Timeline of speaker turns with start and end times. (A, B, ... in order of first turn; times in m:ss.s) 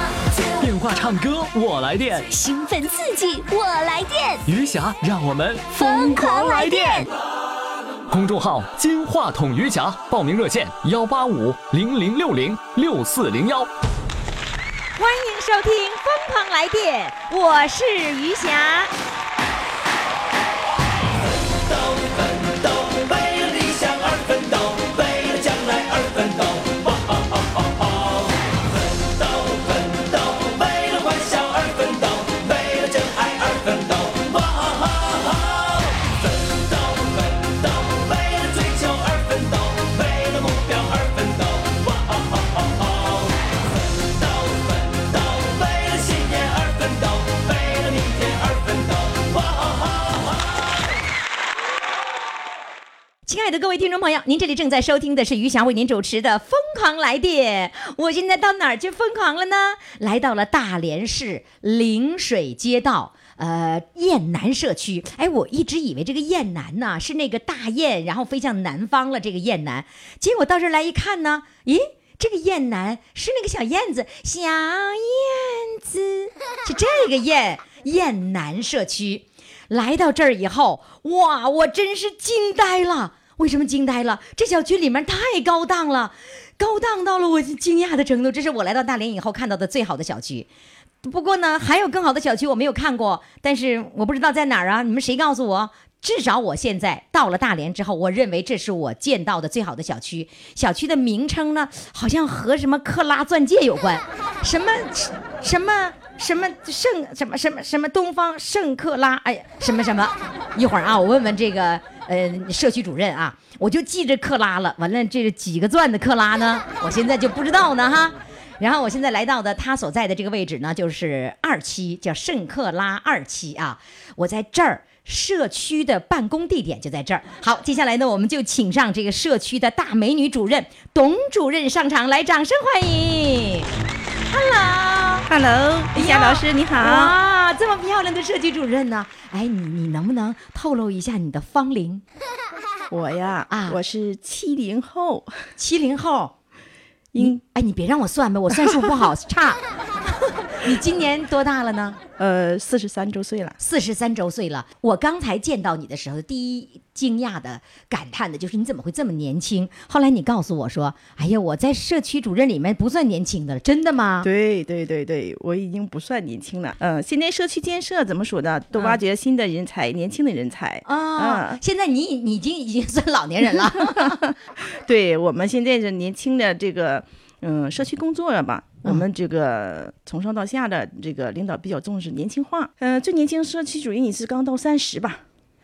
0:00.6-0:02.3 A
0:02.3-0:04.4 B
0:04.5-0:07.1 A
0:05.8-0:07.1 B
0:08.1-0:13.7 A
0:15.0-0:18.9 C
0:21.5-0:43.4 D
0:43.9-0:50.3 D
0:53.3-1:30.5 C
1:31.0-2:13.7 C
2:14.3-2:15.3 C
2:15.3-2:17.2 E
2:15.9-2:22.0 C
2:22.9-2:25.4 E
2:23.5-2:23.8 C
2:25.6-2:26.3 C
2:27.1-2:27.4 E
2:27.2-2:32.0 C
2:28.5-2:28.9 E
2:32.2-2:33.6 E
2:33.6-2:44.3 C
2:44.2-2:51.6 E
2:48.7-2:49.0 C
2:50.9-2:54.2 C
2:53.5-3:05.2 E